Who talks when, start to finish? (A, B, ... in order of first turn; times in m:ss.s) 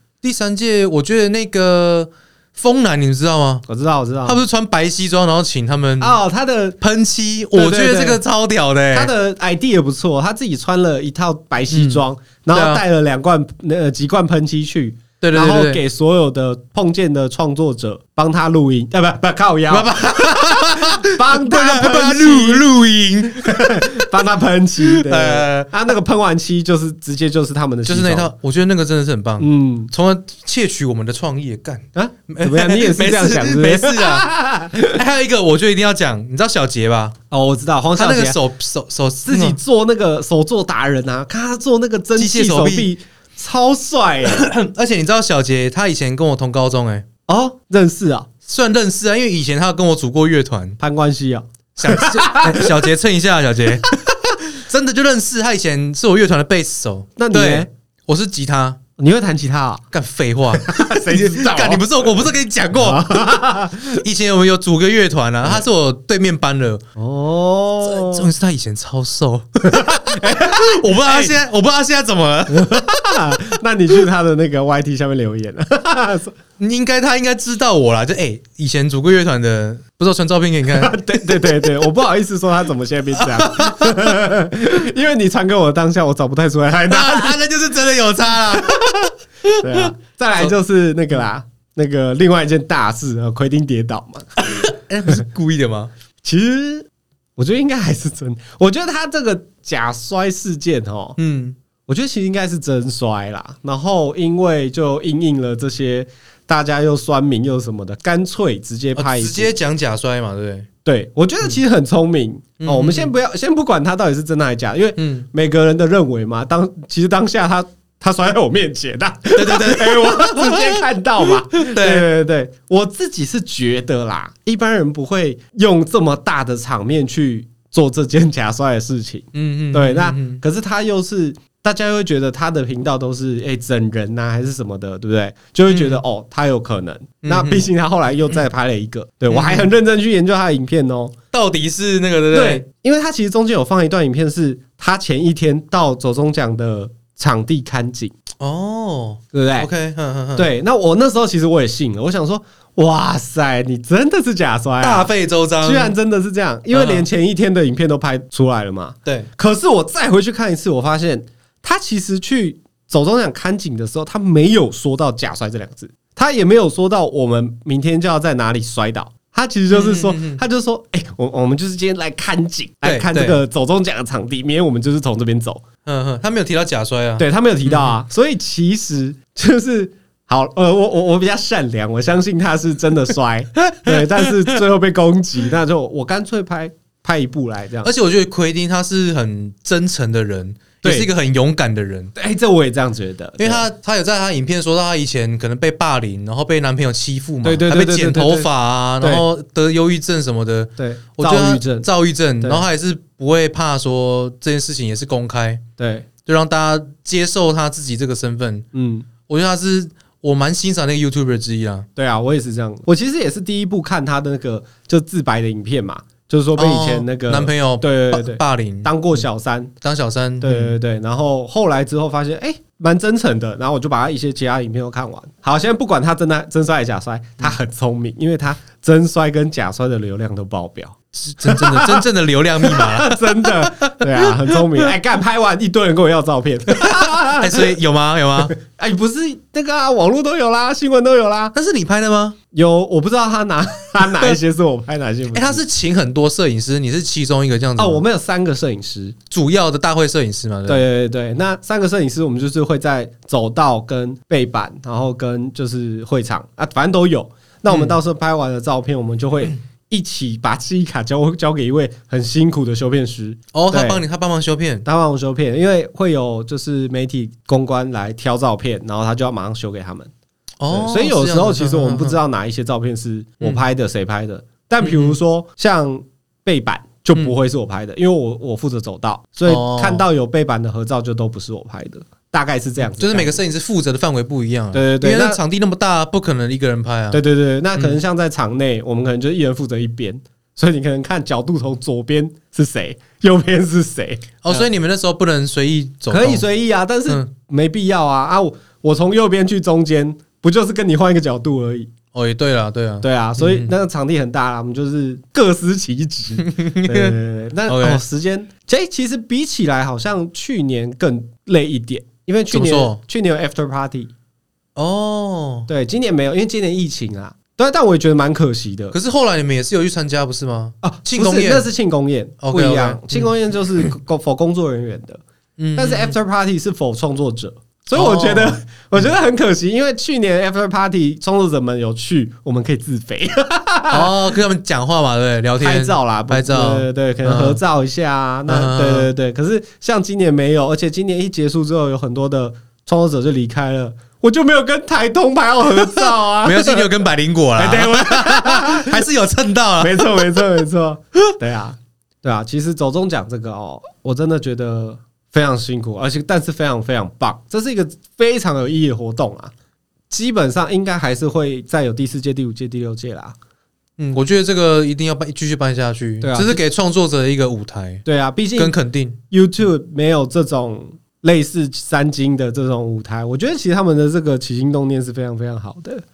0:00.2-0:03.6 A
0:03.6-0:04.4 B
0:04.2-0:06.2 A
0:06.0-0:06.8 B
0:06.8-0:09.1 A
0:07.5-0:08.2 B
0:08.9-0:22.7 B
0:11.7-0:12.8 A
0:15.2-0:15.8 A
0:19.7-0:24.1 A
0:23.4-0:28.3 B
0:24.9-0:25.7 A
0:27.8-0:34.3 A
0:29.4-0:29.9 B
0:31.9-0:35.0 B
0:34.8-0:37.1 A
0:37.3-0:38.4 B
0:38.0-0:39.6 A
0:39.2-0:44.4 B
0:42.2-0:42.9 A
0:44.2-0:47.0 A
0:47.3-0:48.3 B
0:48.4-0:50.8 A
0:50.8-0:52.8 B
0:51.8-0:53.9 A
0:54.4-0:58.8 A
0:57.2-0:57.7 B
0:59.0-0:59.8 B
0:59.9-1:03.3 A
1:00.5-1:01.9 B
1:02.8-1:04.0 B
1:03.9-1:06.8 A
1:07.0-1:08.3 B
1:07.8-1:13.0 A
1:09.7-1:11.4 B
1:12.5-1:16.3 B
1:16.6-1:21.7 A
1:20.7-1:27.4 B
1:23.2-1:24.3 A
1:26.9-1:30.5 A
1:28.7-1:29.0 B
1:29.6-1:34.3 B
1:34.4-1:35.9 A
1:36.2-1:41.2 B
1:41.2-1:41.6 A
1:41.9-1:49.5 B
1:49.0-1:50.7 A
1:50.8-2:21.1 B
1:52.6-1:53.1 A
1:55.0-1:55.3 A
1:59.3-2:02.1 A
2:09.3-2:10.4 A
2:15.7-2:16.0 A
2:17.2-2:17.7 A
2:19.3-2:19.7 A
2:21.3-2:22.6 A
2:22.3-2:28.1 B
2:28.4-2:30.5 A
2:29.3-2:29.7 B
2:30.3-2:55.6 B
2:34.8-2:35.9 A
2:36.7-2:37.1 A
2:39.0-2:39.3 A
2:49.7-2:50.4 A
2:52.8-2:53.4 A
2:55.8-2:58.0 A
2:57.2-3:07.9 B
3:03.7-3:04.3 A
3:07.8-3:12.1 A
3:10.8-3:11.1 B
3:12.2-3:13.6 B
3:13.4-3:25.6 A
3:17.4-3:18.5 B
3:19.0-3:19.2 B
3:20.8-3:21.9 B
3:25.8-3:26.1 B
3:26.2-3:28.6 A
3:28.7-3:29.1 B
3:29.3-3:31.9 A
3:32.0-3:39.7 B
3:36.6-3:38.9 A
3:39.8-3:40.7 A
3:40.4-3:52.1 B
3:51.2-3:54.8 A
3:52.6-3:57.7 B
3:56.7-3:58.5 A
3:58.5-4:01.5 B
4:01.5-4:02.4 A
4:02.5-4:05.6 B
4:05.3-4:08.0 A
4:07.8-4:09.2 B
4:09.3-4:10.8 A
4:10.7-4:24.0 B
4:17.7-4:18.0 A
4:23.5-4:24.8 A
4:24.8-4:30.1 B
4:30.6-4:32.2 A
4:30.7-4:43.4 B
4:34.8-4:35.2 A
4:39.5-4:40.0 A
4:42.9-4:47.2 A
4:44.7-4:45.4 B
4:47.1-4:54.7 B
4:54.4-4:56.4 A
4:56.1-5:01.9 B
5:02.1-5:03.7 A
5:03.0-5:14.1 B
5:06.4-5:08.0 A
5:12.5-5:13.0 A
5:14.8-5:15.7 A
5:15.7-5:19.0 B
5:18.9-5:21.7 A
5:20.8-5:25.2 B
5:22.4-5:23.9 A
5:25.6-5:26.1 A
5:25.8-5:34.2 B
5:27.9-5:28.6 A
5:33.9-5:37.6 A
5:35.6-5:46.9 B
5:38.5-5:39.1 A
5:45.8-5:50.4 A
5:47.6-5:49.0 B
5:49.8-5:59.5 B
6:00.1-6:03.4 B
6:04.0-6:08.0 A
6:06.2-6:06.6 B
6:08.0-6:08.7 B
6:08.6-6:09.2 A
6:09.3-6:16.0 B